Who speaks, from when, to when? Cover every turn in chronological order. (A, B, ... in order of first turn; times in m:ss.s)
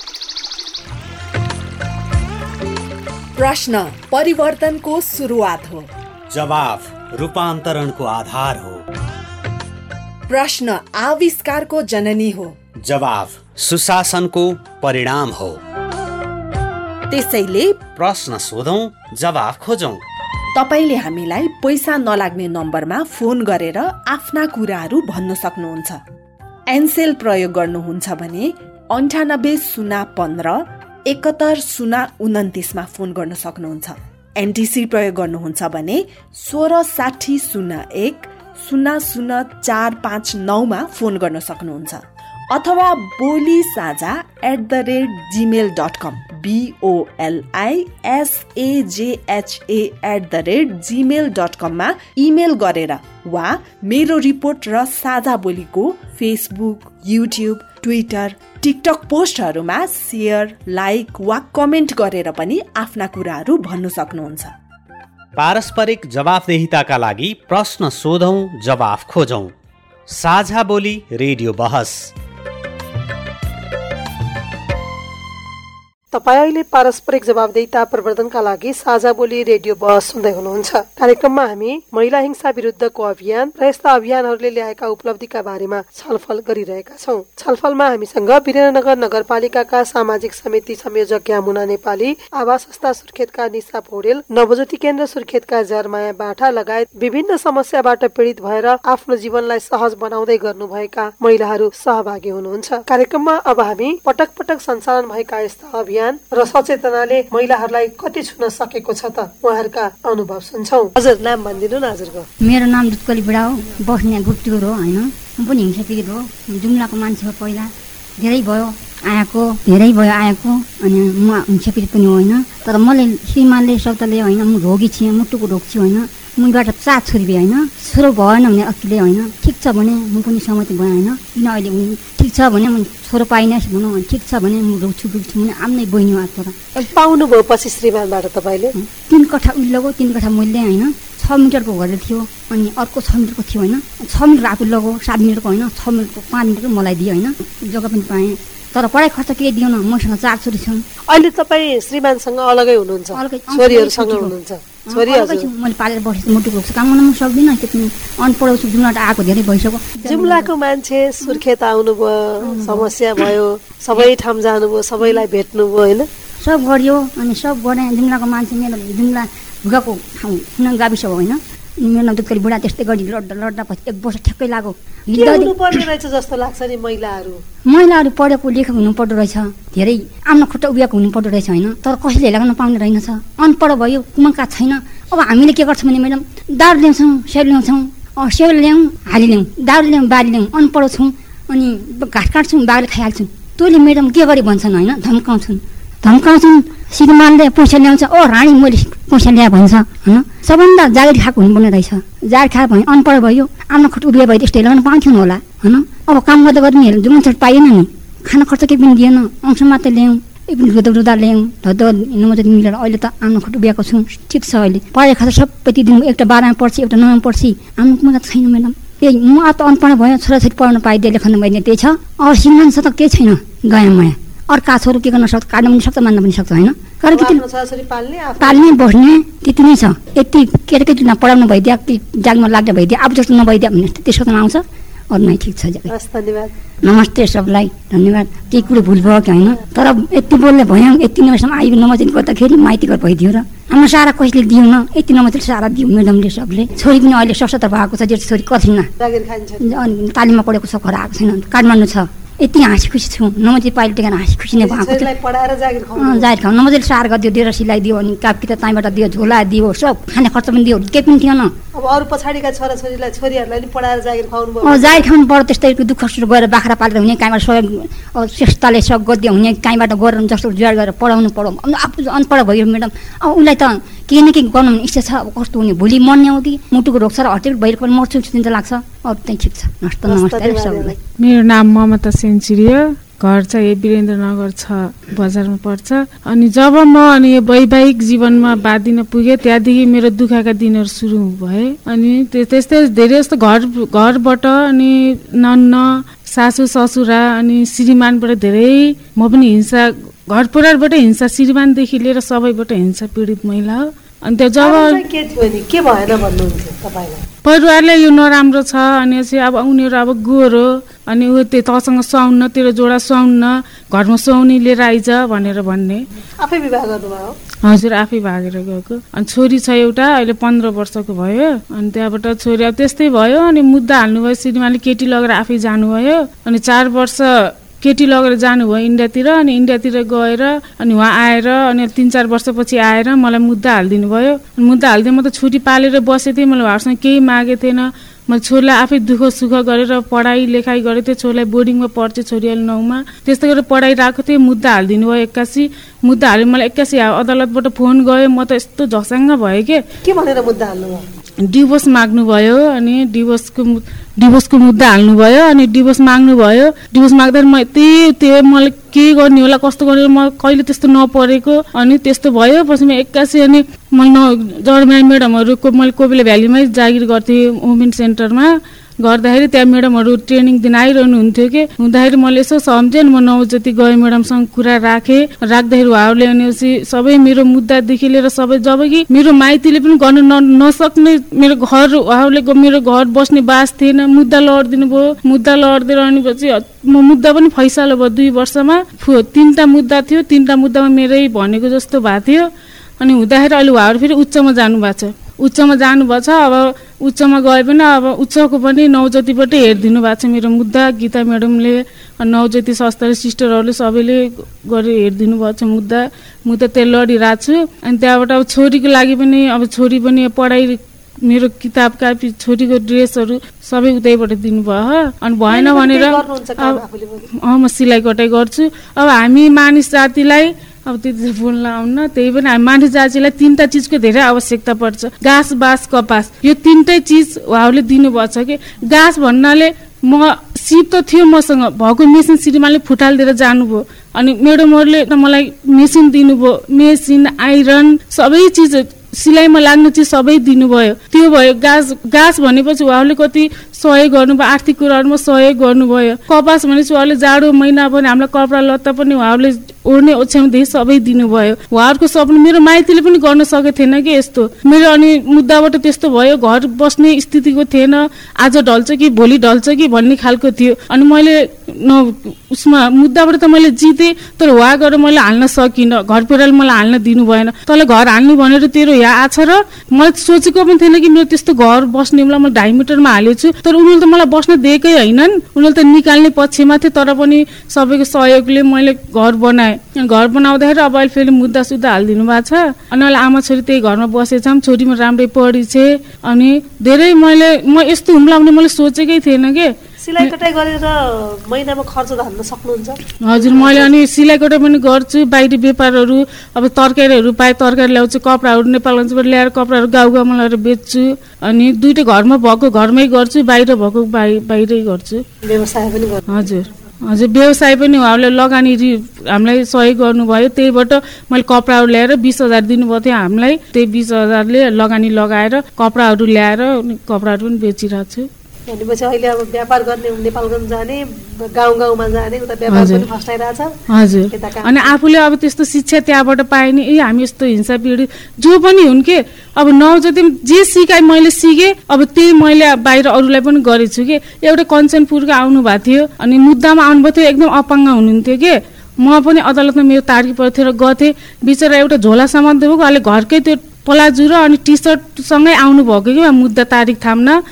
0:03.4-0:05.9 A
0:06.3-0:08.8 B
0:10.3-0:12.6 A
0:12.8-0:15.6 B
0:17.1-0:17.8 A
0:17.8-0:20.0 B
0:20.5-0:26.0 A
0:26.7-1:04.5 A
1:05.4-1:09.5 B
1:10.1-1:12.1 B
1:16.1-1:52.3 C
1:52.4-2:16.8 D
2:16.8-2:18.7 C
2:18.7-2:30.8 D
2:31.1-2:35.5 C
2:33.1-2:34.3 D
2:34.9-2:40.5 D
2:40.0-2:46.1 C
2:42.5-2:42.9 D
2:46.4-2:55.8 D
2:55.1-2:57.4 C
2:57.7-3:47.4 D
3:47.1-3:48.8 C
3:48.4-3:55.9 D
3:55.9-3:56.5 C
3:56.8-4:08.9 D
4:09.0-4:09.7 C
4:09.6-4:15.1 D
4:14.6-4:16.3 C
4:16.0-4:21.5 D
4:21.8-4:25.1 C
4:24.6-4:41.0 D
4:40.0-4:41.0 C
4:41.2-5:05.0 E
5:04.6-5:07.2 C
5:07.4-5:16.0 E
5:16.4-5:17.4 C
5:17.6-5:49.8 E
5:50.0-5:51.0 C
5:51.4-6:32.5 E
6:33.0-6:56.8 E
6:55.5-6:57.3 C
6:57.4-8:10.3 E
8:10.0-8:13.9 C
8:13.2-8:25.2 E
8:25.4-8:26.3 C
8:26.3-8:38.3 E
8:38.7-8:43.7 C
8:42.7-8:43.0 E
8:43.9-9:07.4 E
8:44.3-8:44.9 C